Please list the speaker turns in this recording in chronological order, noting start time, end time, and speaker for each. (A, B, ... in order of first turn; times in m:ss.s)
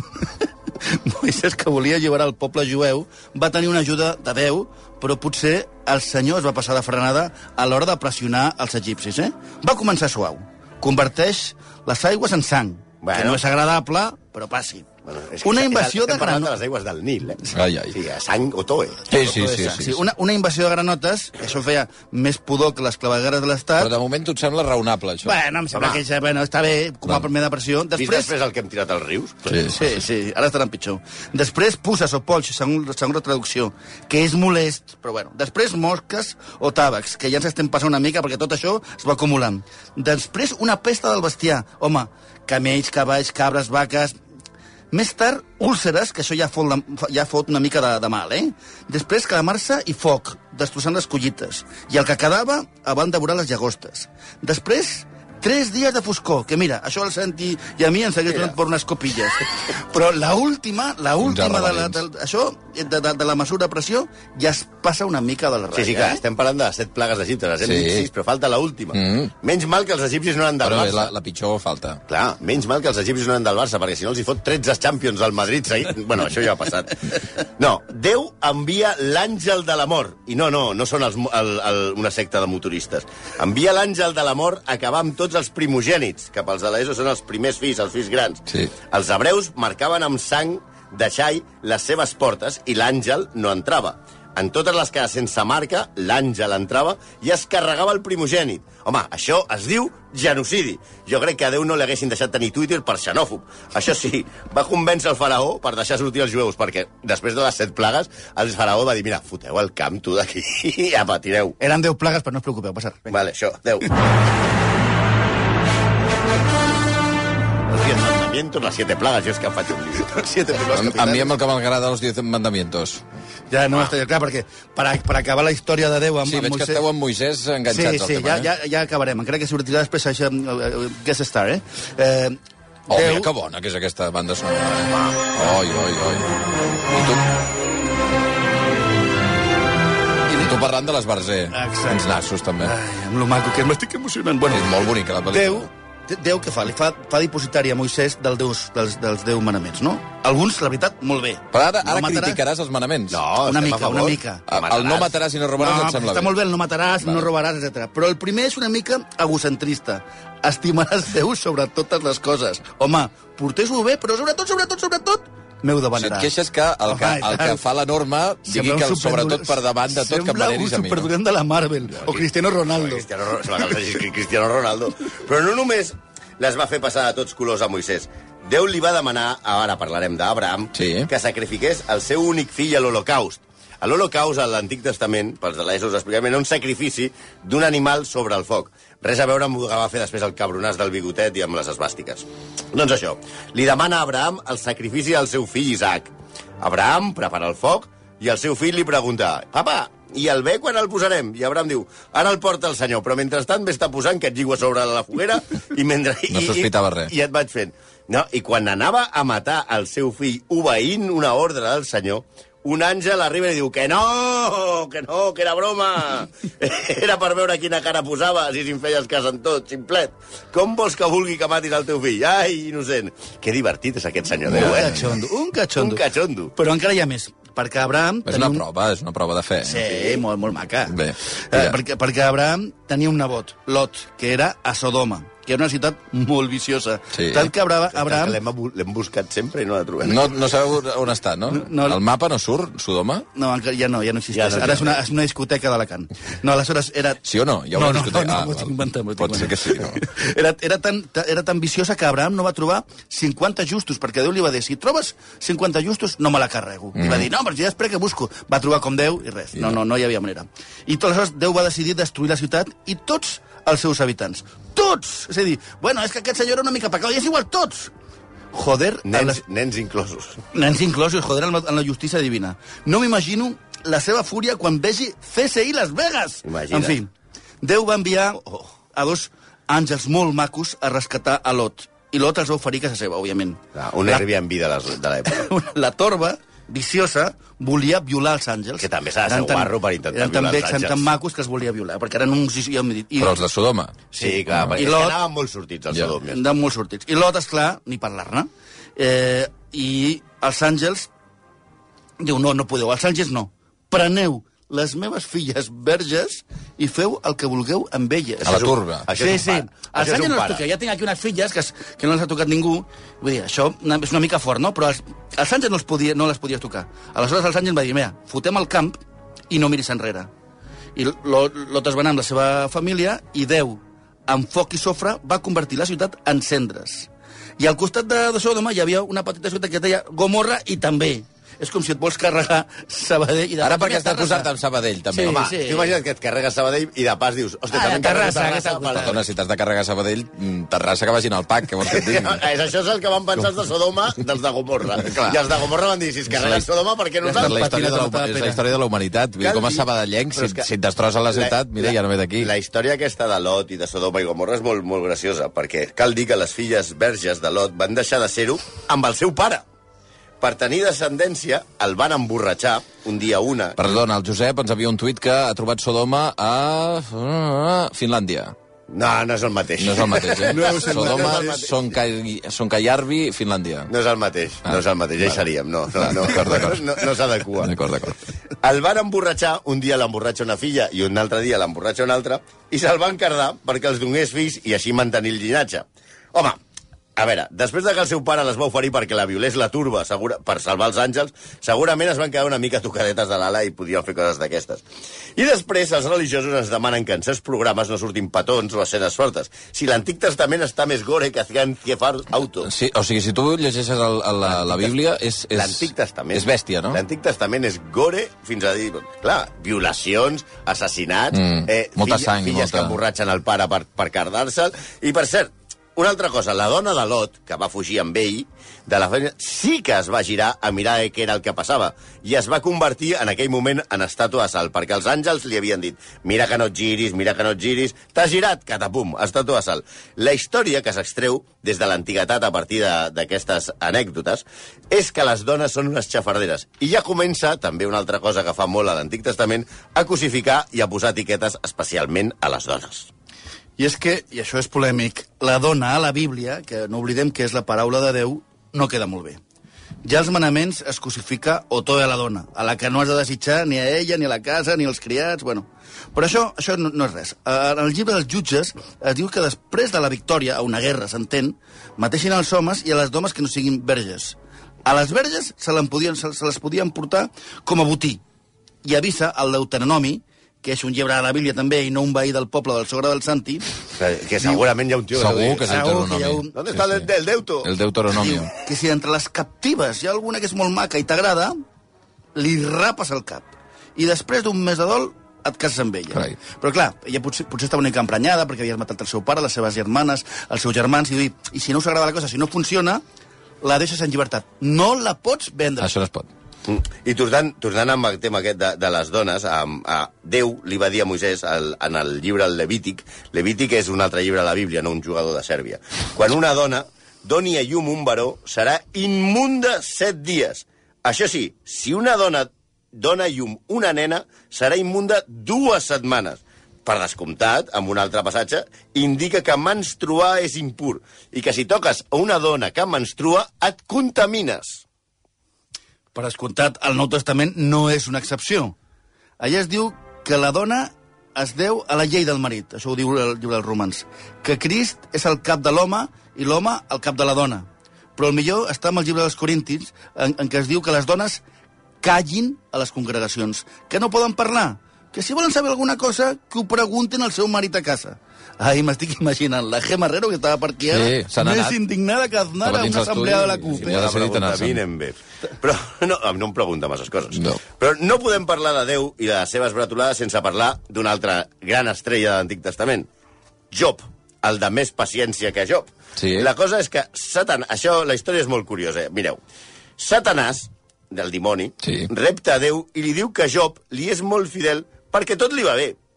0:00.8-0:14.9 A
0:13.0-0:13.4 B
0:15.0-0:19.0 B
0:15.4-0:16.5 A
0:17.5-0:17.9 C
0:19.1-0:20.0 C
0:19.1-0:23.9 A
0:23.8-0:25.3 C
0:25.2-0:28.3 A
0:25.7-0:26.0 B
0:28.0-0:29.6 B
0:29.5-0:30.0 C
0:29.7-0:44.2 A
0:44.9-1:06.2 A
1:01.2-1:02.0 C
1:05.7-1:11.1 B
1:07.6-1:08.1 C
1:08.9-1:09.3 C
1:10.6-1:12.0 C
1:12.1-1:51.6 B
1:51.6-1:53.2 A
1:53.1-1:53.9 B
1:57.7-2:00.1 B
2:00.0-2:01.3 A
2:00.7-2:03.0 C
2:03.5-2:06.8 A
2:06.2-2:08.5 C
2:07.7-2:12.4 A
2:12.9-2:13.3 A
2:12.9-2:16.4 C
2:16.9-2:17.2 C
2:20.3-2:20.5 A
2:20.4-2:22.7 C
2:21.5-2:32.4 A
2:24.5-2:25.7 C
2:31.5-2:33.2 C
2:33.1-2:35.1 B
2:33.4-2:34.4 A
2:34.5-2:36.4 C
2:35.6-2:46.3 A
2:37.0-2:37.3 C
2:45.9-2:51.1 C
2:46.8-2:47.6 A
2:48.4-2:53.1 A
2:51.9-3:45.1 B
3:00.7-3:01.1 C
3:26.3-3:27.1 C
3:44.5-3:44.9 C
3:44.5-3:48.6 A
3:45.8-3:46.5 B
3:48.2-3:49.8 C
3:49.6-3:58.4 A
3:49.8-3:50.2 B
3:50.9-3:51.8 C
3:57.1-3:57.5 C
3:57.9-4:00.4 B
4:00.0-4:03.2 C
4:01.5-4:02.0 A
4:03.3-4:07.2 A
4:04.3-4:05.0 B
4:07.2-4:10.0 C
4:07.7-4:27.9 A
4:17.0-4:17.3 C
4:28.5-4:29.4 A
4:29.0-4:30.4 B
4:30.5-4:37.1 A
4:36.4-4:37.0 B
4:37.6-4:44.2 A
4:43.7-4:45.5 B
4:45.2-4:53.4 A
4:48.8-4:51.1 B
4:53.2-4:54.0 C
4:54.1-4:55.2 A
4:54.2-4:56.4 B
4:54.5-4:54.8 C
4:56.2-5:01.1 A
5:02.2-5:08.6 A
5:08.4-5:10.6 B
5:08.4-5:09.0 C
5:09.1-5:20.3 A
5:20.9-5:34.5 A
5:33.6-5:35.4 C
5:35.1-5:35.9 A
5:35.2-5:39.2 B
5:37.7-5:39.2 A
5:39.0-5:42.4 C
5:41.9-5:47.6 B
5:45.0-5:45.4 C
5:46.3-5:46.7 C
5:47.2-5:48.6 A
5:47.3-5:52.5 C
5:49.4-5:50.7 B
5:51.3-5:59.6 B
6:00.4-6:03.8 B
6:03.8-6:08.5 C
6:08.9-6:11.8 B
6:09.8-6:13.9 C
6:10.5-6:11.5 A
6:13.9-6:17.7 B
6:14.6-6:15.4 C
6:15.9-6:18.2 C
6:18.6-6:26.6 B
6:27.2-6:34.8 B
6:35.4-6:42.7 B
6:42.6-6:47.0 C
6:44.4-6:44.9 B
6:45.5-7:23.1 B
6:51.3-6:53.0 C
7:23.8-7:29.4 A
7:30.0-7:48.2 A
7:48.8-7:53.6 A
7:54.0-7:55.8 B
7:55.1-7:57.1 C
7:55.6-7:56.5 A
7:56.5-7:57.7 B
7:57.6-7:58.5 C
7:58.1-8:01.5 A
8:02.3-8:13.0 A
8:13.6-8:15.9 A
8:15.8-8:16.3 C
8:16.7-8:44.8 B
8:46.1-8:48.8 A
8:49.4-9:01.4 A
9:02.0-9:14.0 A
9:10.9-9:11.8 C
9:12.6-9:14.8 C
9:13.7-9:23.1 B
9:17.3-9:17.6 C
9:23.7-9:29.4 B
9:26.2-9:26.5 C
9:30.0-9:36.0 B
9:31.8-9:32.1 C